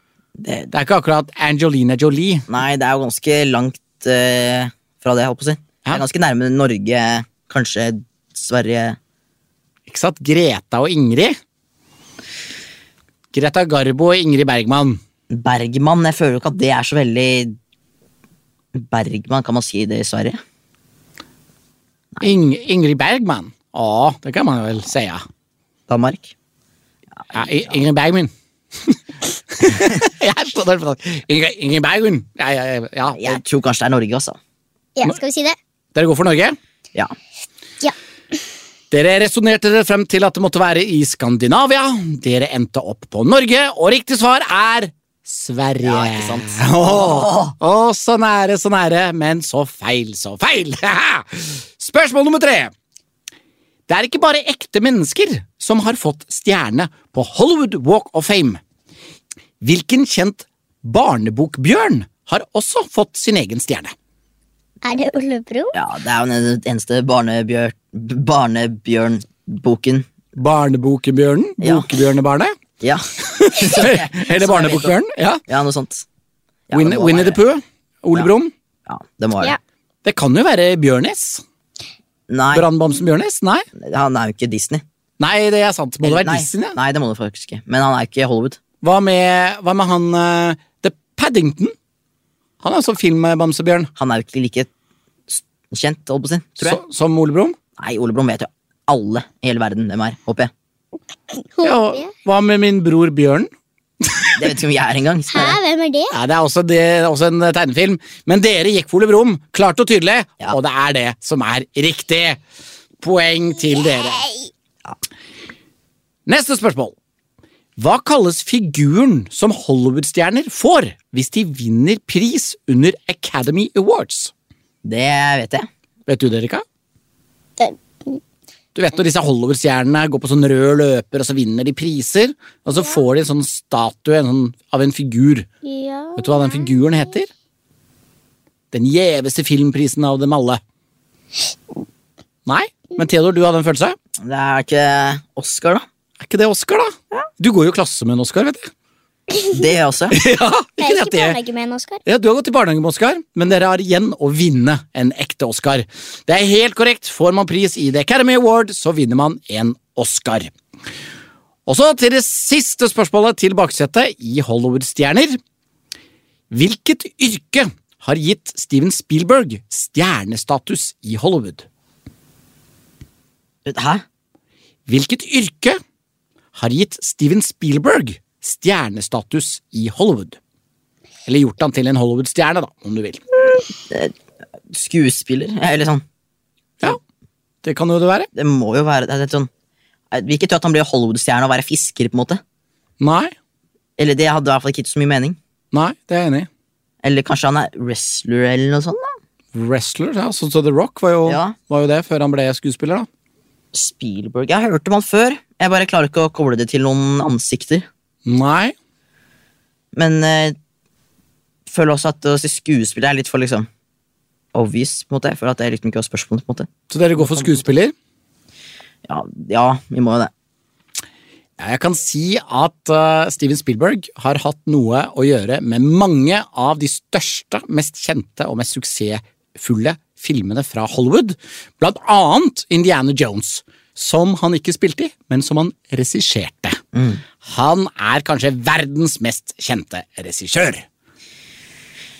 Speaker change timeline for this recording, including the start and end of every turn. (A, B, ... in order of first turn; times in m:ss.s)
0:00.4-0:00.7 A
0:00.7-0:02.5 B
0:02.5-0:09.0 A
0:09.9-0:11.4 B
0:13.3-0:15.0 B
0:15.3-0:17.6 A
0:18.8-0:20.4 A
0:22.2-0:25.2 B
0:25.9-0:26.3 A
0:27.2-0:27.8 A
0:27.3-0:28.3 B
0:29.5-0:33.4 B
0:33.2-0:34.4 A
0:35.0-0:35.6 C
0:36.0-0:36.6 B
0:38.9-0:52.7 B
0:45.8-0:47.6 A
0:53.9-0:58.6 B
0:59.6-1:03.9 B
1:04.8-1:05.8 C
1:05.7-1:10.1 A
1:10.4-1:12.6 B
1:11.6-1:11.9 A
1:12.8-1:15.0 A
1:13.2-1:15.4 B
1:15.5-1:16.0 A
1:16.7-1:17.4 A
1:16.7-1:18.5 B
1:18.9-1:19.5 A
1:20.0-1:21.4 B
1:22.3-1:22.7 A
1:22.5-1:23.7 B
1:23.8-1:24.8 A
1:25.2-1:26.8 B
1:26.0-1:28.6 A
1:28.8-1:31.7 B
1:32.6-1:33.9 B
1:34.0-1:34.7 A
1:35.3-1:36.8 A
1:36.6-1:37.6 B
1:37.8-1:40.5 A
1:41.6-1:42.1 C
1:41.6-1:43.5 B
1:44.0-1:44.5 B
1:44.4-1:45.6 A
1:45.3-1:46.2 C
1:46.1-1:52.4 B
1:53.0-1:54.2 B
1:53.8-1:54.5 C
1:56.3-1:56.9 B
1:57.8-2:04.3 B
2:04.8-2:05.7 A
2:06.1-2:06.6 B
2:07.6-2:08.2 C
2:08.7-2:15.5 B
2:15.6-2:16.8 C
2:16.2-2:17.3 B
2:18.7-2:20.6 B
2:22.5-2:24.0 B
2:24.2-2:25.9 A
2:26.2-2:28.7 B
2:29.3-2:29.6 C
2:29.5-2:30.2 A
2:30.1-2:31.4 B
2:30.8-2:32.0 C
2:32.1-2:40.5 B
2:41.7-2:45.4 B
2:46.5-2:51.7 B
2:53.7-2:54.0 A
2:54.9-2:55.8 B
2:56.6-3:00.4 B
3:01.3-3:03.2 B
3:04.7-3:06.0 A
3:07.6-3:08.3 B
3:08.3-3:09.5 A
3:10.1-3:12.4 A
3:13.0-3:13.3 B
3:14.0-3:15.4 A
3:15.7-3:16.5 B
3:17.0-3:19.1 A
3:19.5-3:23.1 B
3:21.3-3:21.6 A
3:23.7-3:27.9 A
3:28.3-3:28.7 B
3:30.0-3:30.6 A
3:31.7-3:33.7 A
3:34.5-3:37.6 A
3:36.9-3:37.9 B
3:39.1-3:40.3 A
3:41.6-3:56.8 B
3:56.9-3:57.2 A
3:57.4-4:00.9 B